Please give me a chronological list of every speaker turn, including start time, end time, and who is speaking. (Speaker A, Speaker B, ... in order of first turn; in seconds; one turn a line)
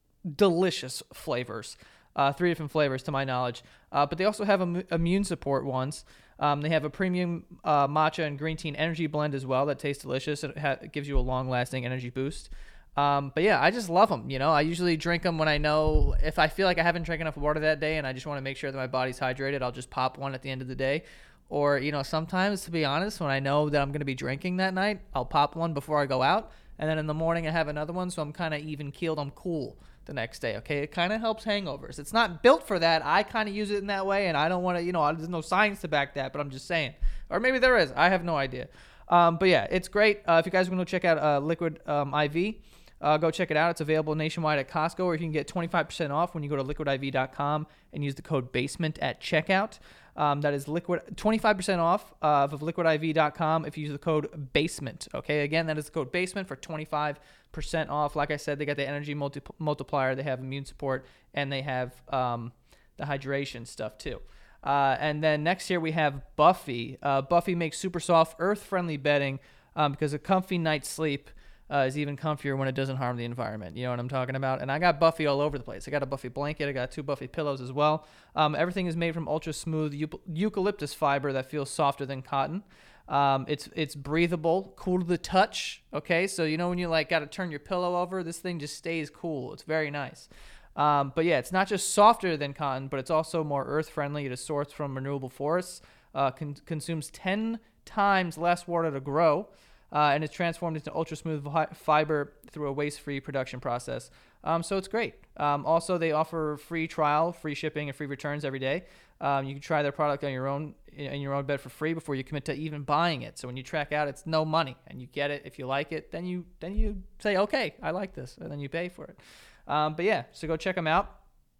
Speaker A: 0.2-121.1